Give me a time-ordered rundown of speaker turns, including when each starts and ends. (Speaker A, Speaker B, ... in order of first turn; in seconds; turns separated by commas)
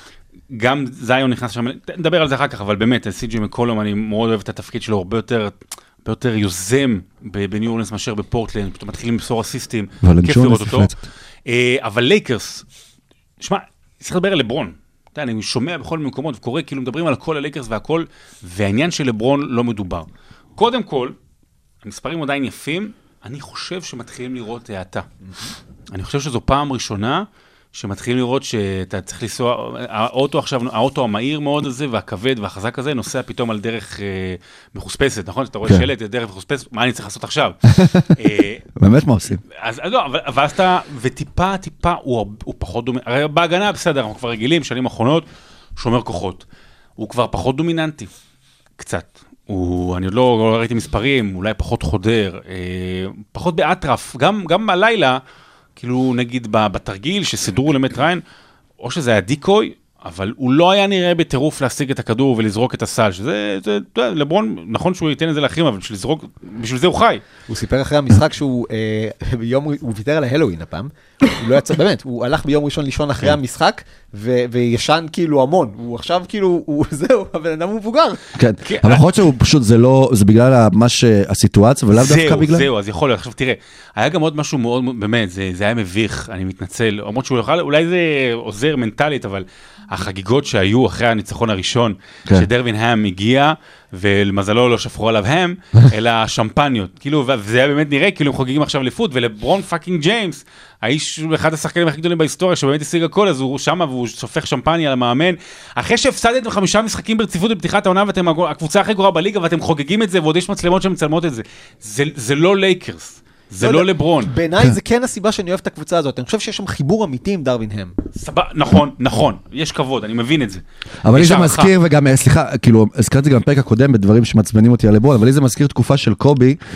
Speaker A: 0.5-10.9, Speaker B: 10.0-11.0, Speaker A: 11.5-12.7, Speaker A: 13.4-21.1, Speaker A: 21.8-25.1, Speaker A: 25.9-38.6, Speaker B: 37.7-38.1, Speaker B: 38.8-39.4, Speaker A: 39.5-45.3, Speaker A: 45.8-46.4, Speaker A: 47.0-48.1, Speaker A: 48.8-55.2, Speaker A: 55.8-58.2, Speaker A: 58.8-67.2, Speaker C: 67.5-78.2, Speaker B: 78.4-82.7, Speaker A: 78.7-79.0, Speaker A: 81.9-114.3, Speaker C: 113.6-117.9, Speaker A: 118.2-120.6, Speaker B: 121.0-126.6, Speaker A: 121.1-121.7